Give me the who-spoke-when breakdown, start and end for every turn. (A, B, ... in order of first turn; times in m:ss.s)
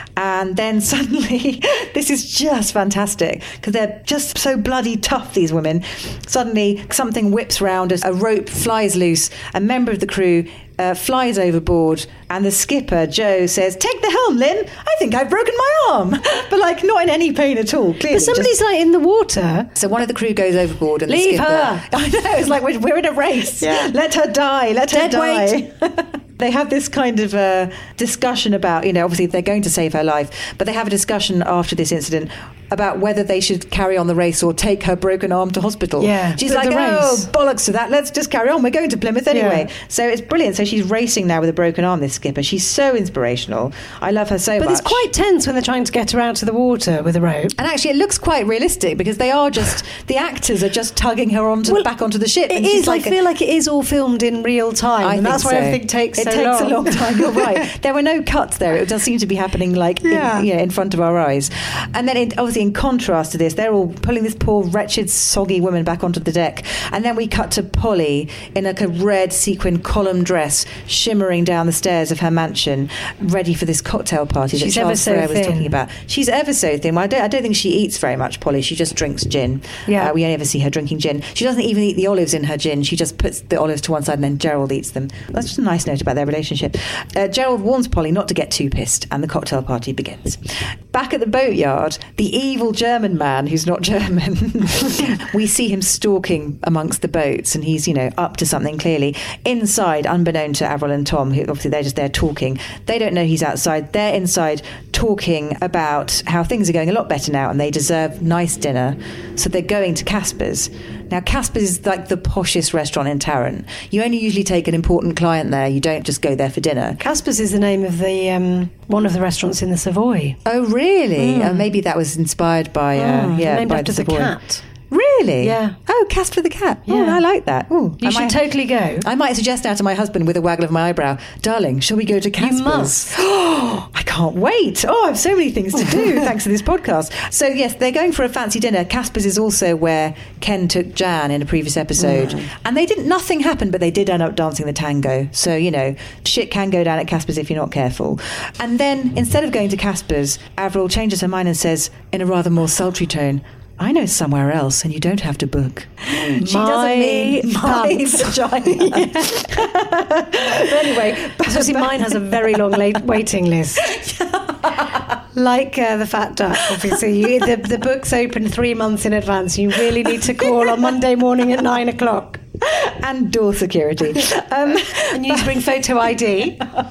0:00.2-0:18.5 A
0:18.1-0:19.7 B
0:19.7-0:45.0 A
0:21.1-0:21.8 B
0:23.6-0:23.9 B
0:24.9-0:25.6 B
0:36.0-0:37.3 B
0:39.3-0:39.7 B
0:44.6-0:47.5 B
0:47.6-0:53.2 A
0:52.5-0:57.6 B
0:55.0-1:57.0 A
1:00.0-1:00.4 B
1:14.5-1:15.7 B
1:19.8-1:20.1 B
1:57.0-2:00.4 B
2:00.4-2:04.3 A
2:01.2-2:01.7 B
2:02.9-2:04.6 B
2:04.9-2:43.0 A
2:05.4-2:05.8 B
2:06.9-2:07.2 B
2:08.0-2:09.1 B
2:12.4-2:13.1 B
2:15.8-2:16.0 B
2:22.0-2:22.5 B
2:36.1-2:39.7 B
2:40.4-2:43.9 B
2:43.8-2:45.0 A
2:45.3-2:52.4 B
2:50.0-2:50.9 A
2:52.6-2:55.6 A
2:55.1-2:56.6 B